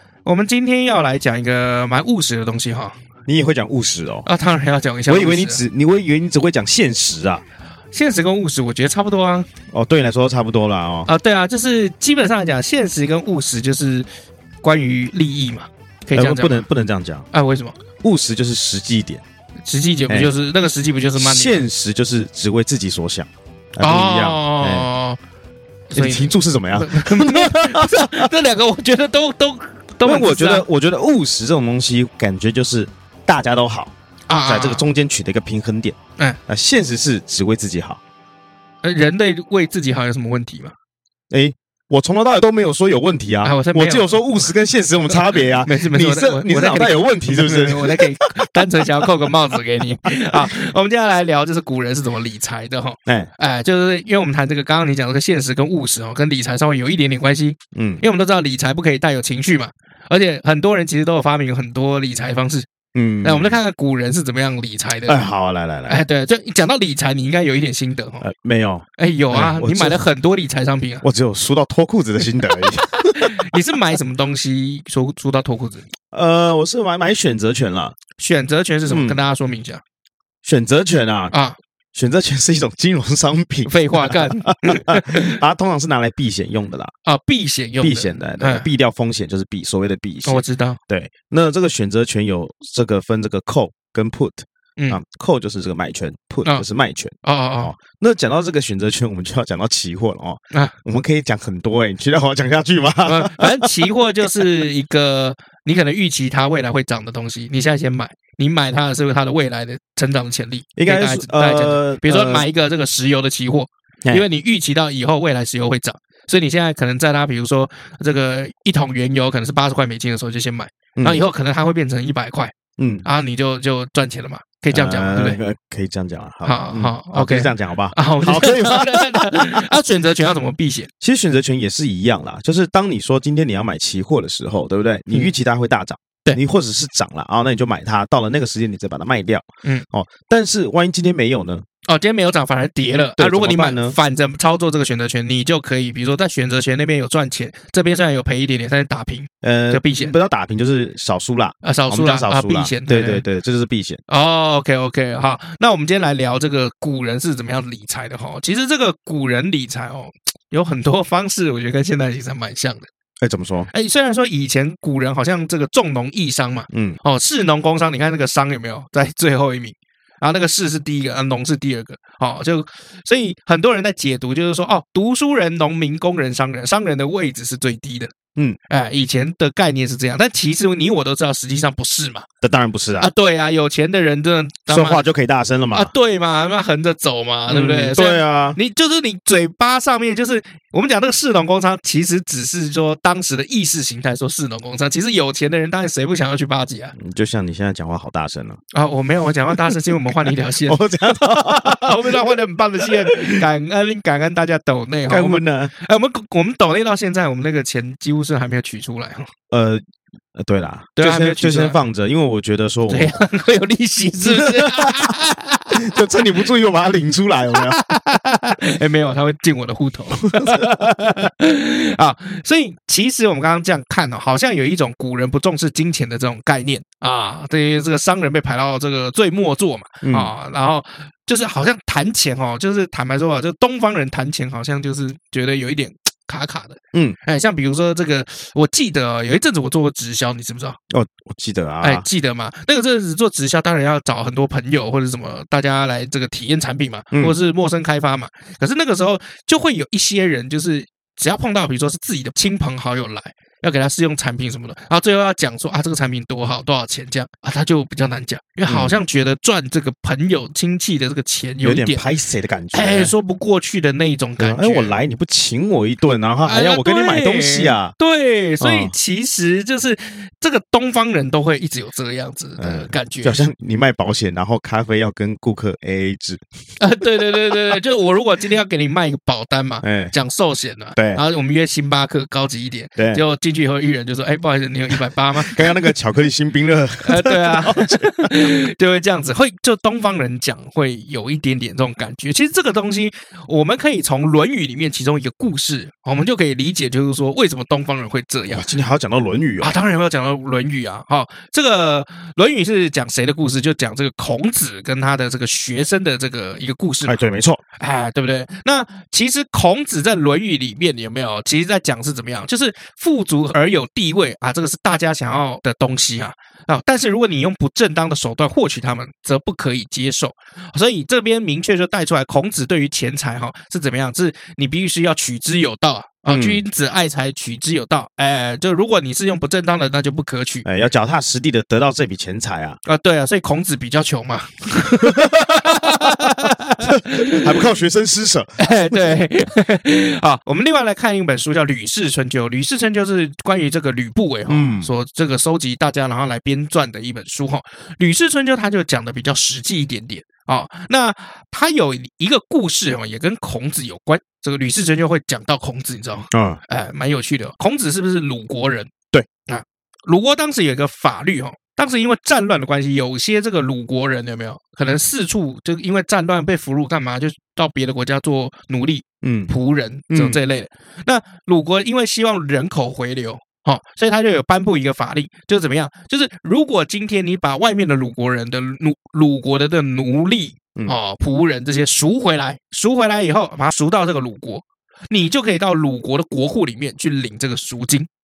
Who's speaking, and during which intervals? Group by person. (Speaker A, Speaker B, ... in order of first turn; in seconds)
Speaker A: 0.2-3.0, 4.2-5.6, 7.9-9.5, 11.1-14.1, 14.6-16.6, 17.3-17.8, 19.6-21.6, 23.8-25.2, 25.9-30.6, 34.3-34.8, 38.8-40.7, 43.4-44.5, 45.1-62.7, 63.2-65.3, 65.9-68.2, 69.0-71.0, 73.0-75.9, 78.2-79.8, 81.3-81.6, 83.7-85.4, 87.0-88.7, 90.2-90.8, 97.2-97.7, 103.0-125.4, 126.4-130.9, 141.9-150.1, 151.6-153.2, 154.1-162.9, 163.7-178.1, 178.7-182.3, 183.0-185.0, 185.7-196.9, 198.7-209.3, 211.0-211.8, 212.9-216.1, 217.5-240.8, 241.8-262.0, 262.7-265.0, 266.4-273.4, 276.8-285.7, 287.0-298.7, 299.6-307.2, 307.8-330.6, 332.8-337.5, 338.6-358.9, 359.5-388.1
Speaker B: 3.2-4.3, 5.1-7.4, 9.7-11.1, 16.1-17.3, 18.0-19.2, 21.1-24.9, 25.9-28.3, 30.0-33.9, 34.5-38.0, 41.3-50.5, 57.7-58.0, 62.9-63.6, 65.1-66.0, 68.2-70.0, 71.0-73.5, 76.1-78.0, 78.9-79.2, 80.4-81.3, 81.9-86.9, 87.8-104.5, 110.8-112.5, 121.0-121.2, 122.8-123.0, 124.7-129.7, 131.0-141.6, 143.2-144.0, 149.4-154.0, 163.2-163.7, 166.7-167.0, 182.4-183.1, 184.7-185.9, 187.5-188.6, 196.9-198.6, 199.7-203.4, 205.1-205.7, 209.5-209.8, 210.3-213.1, 214.2-215.1, 215.7-217.8, 220.2-220.8, 230.0-230.3, 240.9-242.0, 258.7-259.0, 261.6-263.1, 264.4-267.9, 268.6-268.9, 272.6-276.4, 277.2-277.8, 279.8-280.1, 280.9-281.2, 283.0-283.2, 285.3-288.5, 298.5-299.7, 307.1-307.6, 326.3-326.6, 330.6-332.8, 335.0-338.6, 344.5-344.9, 356.3-356.6, 369.2-369.5, 370.1-370.4